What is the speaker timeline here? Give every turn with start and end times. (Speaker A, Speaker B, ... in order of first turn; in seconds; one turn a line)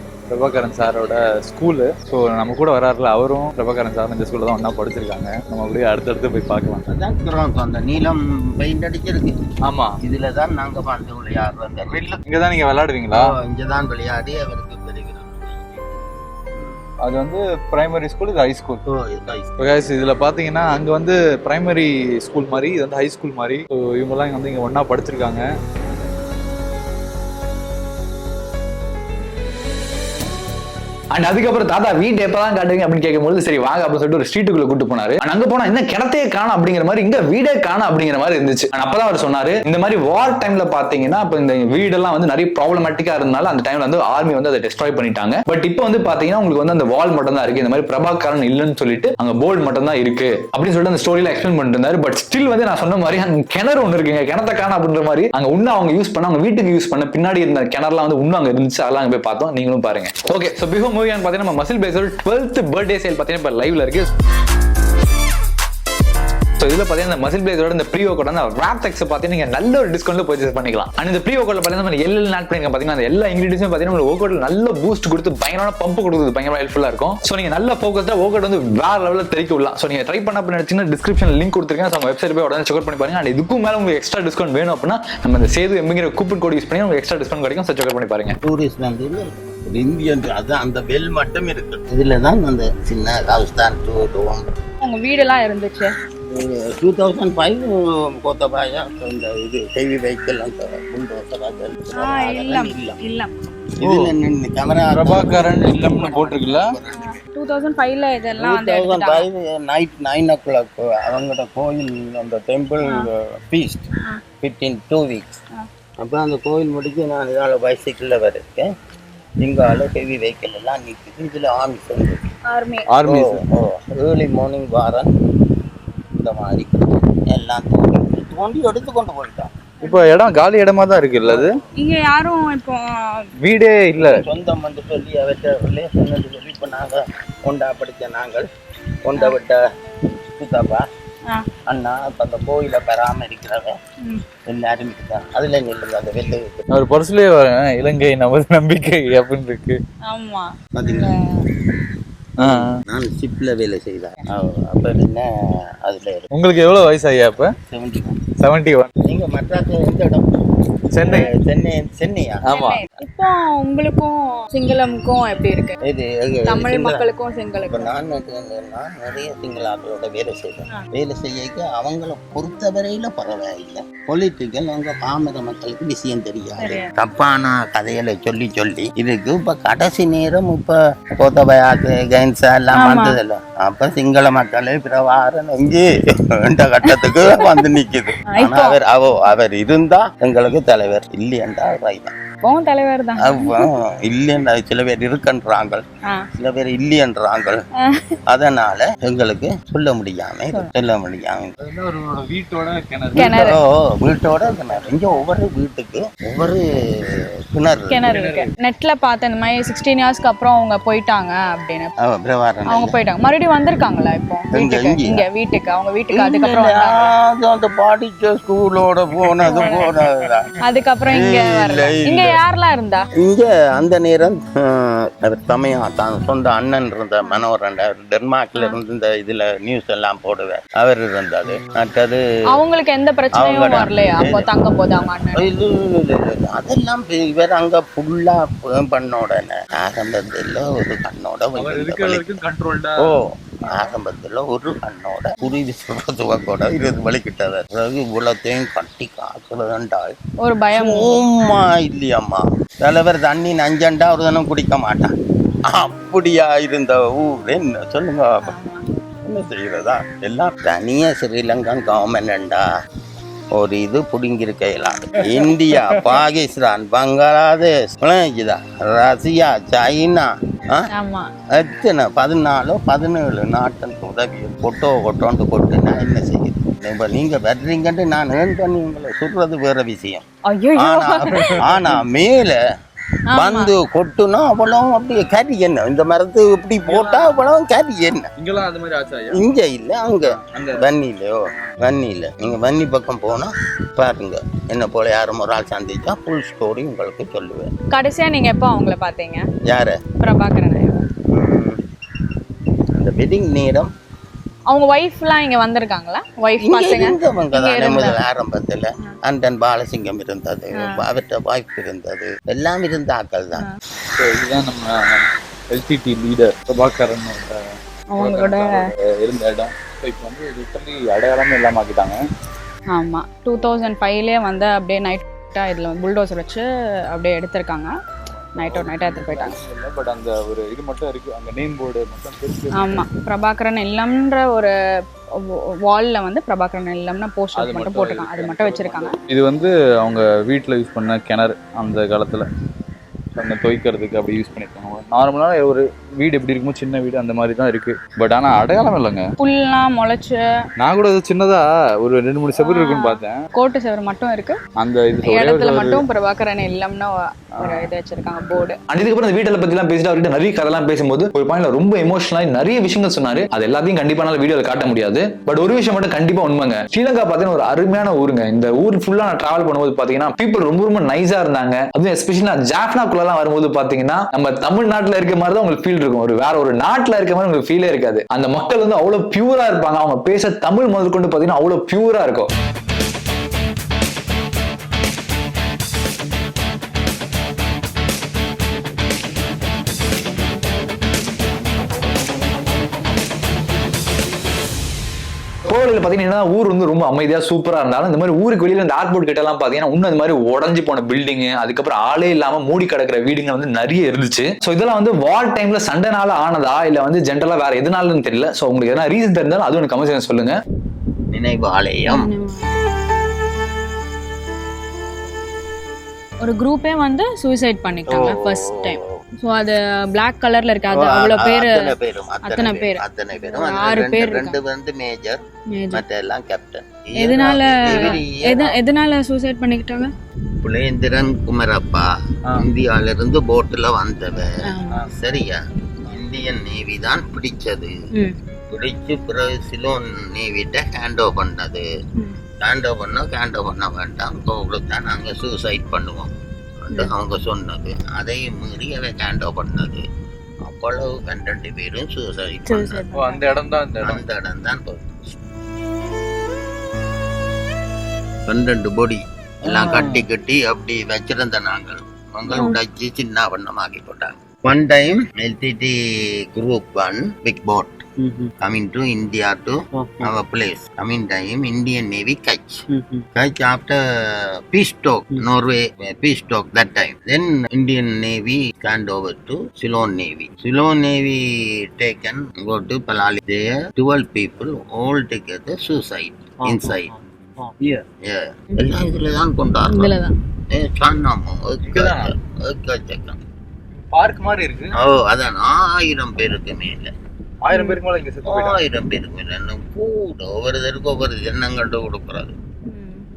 Speaker A: 0.3-6.8
Speaker B: 0.5-1.2
Speaker B: 6.9-9.4
Speaker B: 10.0-12.2
Speaker A: 12.3-13.2
Speaker B: 13.1-16.8
Speaker A: 17.0-18.8
Speaker B: 18.9-20.0
Speaker A: 19.6-25.4
Speaker C: 31.1-64.1
Speaker C: 66.6-88.4
Speaker B: 88.4-94.5
Speaker D: 94.8-95.9
Speaker B: 96.3-103.0
Speaker D: 101.9-103.3
Speaker B: 103.8-107.0
Speaker A: 105.0-106.7
Speaker D: 107.0-109.2
Speaker B: 108.3-113.9
Speaker B: 114.4-115.4
Speaker B: 116.0-118.7
Speaker B: 119.4-122.3
Speaker D: 122.5-122.9
Speaker A: 122.9-123.4
Speaker B: 123.0-125.1
Speaker B: 126.2-129.5
Speaker D: 129.8-130.1
Speaker A: 129.8-131.5
Speaker B: 131.2-131.6
Speaker D: 131.8-133.3
Speaker A: 133.4-134.2
Speaker B: 134.0-138.5
Speaker B: 139.1-139.6
Speaker B: 140.3-140.8
Speaker B: 141.7-143.8
Speaker B: 144.5-146.6
Speaker A: 146.8-149.8
Speaker D: 150.1-151.4
Speaker B: 150.8-151.1
Speaker B: 152.4-155.3
Speaker B: 155.8-156.3
Speaker A: 156.3-157.5
Speaker B: 157.7-158.2
Speaker A: 158.4-158.9
Speaker B: 159.1-160.3
Speaker A: 160.9-161.3
Speaker B: 161.0-162.5
Speaker A: 162.4-162.8
Speaker D: 162.5-165.8
Speaker B: 165.8-167.1
Speaker D: 166.5-167.9
Speaker B: 167.7-192.1
Speaker D: 176.6-176.9
Speaker D: 182.8-183.1
Speaker D: 186.8-187.7
Speaker D: 188.3-188.8
Speaker D: 192.4-193.7
Speaker B: 193.2-195.8
Speaker B: 196.4-197.6
Speaker B: 198.3-201.6
Speaker A: 201.6-203.4
Speaker B: 203.2-206.7
Speaker D: 203.2-203.6
Speaker A: 204.4-204.9
Speaker B: 207.5-208.1
Speaker D: 207.9-211.9
Speaker A: 208.1-208.5
Speaker B: 212.0-213.0
Speaker D: 212.7-217.1
Speaker B: 214.5-215.2
Speaker B: 216.1-220.5
Speaker D: 219.5-219.9
Speaker D: 220.6-223.0
Speaker B: 221.1-222.4
Speaker B: 223.2-232.2
Speaker D: 232.5-235.5
Speaker B: 233.4-234.5
Speaker B: 235.3-242.2
Speaker A: 241.6-243.0
Speaker B: 243.0-250.2
Speaker D: 243.6-243.9
Speaker D: 250.4-251.2
Speaker B: 250.7-255.1
Speaker B: 255.7-258.5
Speaker D: 258.4-258.8
Speaker B: 259.3-262.7
Speaker B: 263.6-270.8
Speaker D: 270.9-271.3
Speaker B: 271.6-280.2
Speaker D: 280.5-281.6
Speaker B: 280.8-282.6
Speaker D: 283.3-283.7
Speaker B: 283.4-288.3
Speaker D: 287.0-287.4
Speaker A: 288.4-289.4
Speaker B: 289.3-297.7
Speaker A: 290.4-290.8
Speaker D: 297.9-299.4
Speaker B: 299.6-300.0
Speaker D: 300.2-301.1
Speaker B: 301.3-301.8
Speaker B: 303.0-303.9
Speaker D: 304.7-308.2
Speaker B: 306.6-313.6
Speaker A: 314.2-317.6
Speaker D: 318.1-318.8
Speaker A: 318.2-322.1
Speaker D: 322.9-327.9
Speaker D: 328.6-329.6
Speaker A: 328.6-333.1
Speaker D: 332.7-334.7
Speaker D: 335.4-339.2
Speaker A: 337.6-342.5
Speaker A: 343.4-349.2
Speaker D: 349.4-350.4
Speaker A: 350.8-353.3
Speaker D: 352.6-354.6
Speaker A: 354.8-356.0
Speaker D: 355.2-358.8
Speaker A: 357.6-357.9
Speaker C: 358.9-382.5
Speaker C: 395.7-410.6
Speaker B: 411.3-412.3
Speaker D: 412.1-412.6
Speaker D: 416.4-421.8
Speaker B: 418.1-418.9
Speaker B: 420.9-425.4
Speaker D: 422.4-424.6
Speaker D: 425.8-426.0
Speaker B: 425.9-428.8
Speaker D: 427.2-430.1
Speaker B: 430.6-437.9
Speaker D: 434.7-435.0
Speaker B: 438.7-441.9
Speaker B: 442.6-446.3
Speaker B: 446.9-450.0
Speaker B: 450.6-453.0
Speaker D: 452.7-453.4
Speaker A: 453.1-454.2
Speaker B: 454.0-455.2
Speaker B: 458.5-466.0
Speaker A: 459.7-460.2
Speaker D: 462.5-462.8
Speaker B: 466.5-468.0
Speaker B: 468.6-472.8
Speaker B: 473.4-474.0
Speaker B: 474.7-487.1
Speaker A: 486.6-487.0
Speaker A: 487.6-488.1
Speaker B: 488.2-490.1
Speaker D: 489.9-490.3
Speaker B: 490.7-493.4
Speaker A: 491.9-492.3
Speaker A: 494.1-494.9
Speaker B: 495.0-497.1
Speaker A: 497.7-498.8
Speaker D: 497.7-498.0
Speaker B: 498.5-502.6
Speaker D: 502.9-503.2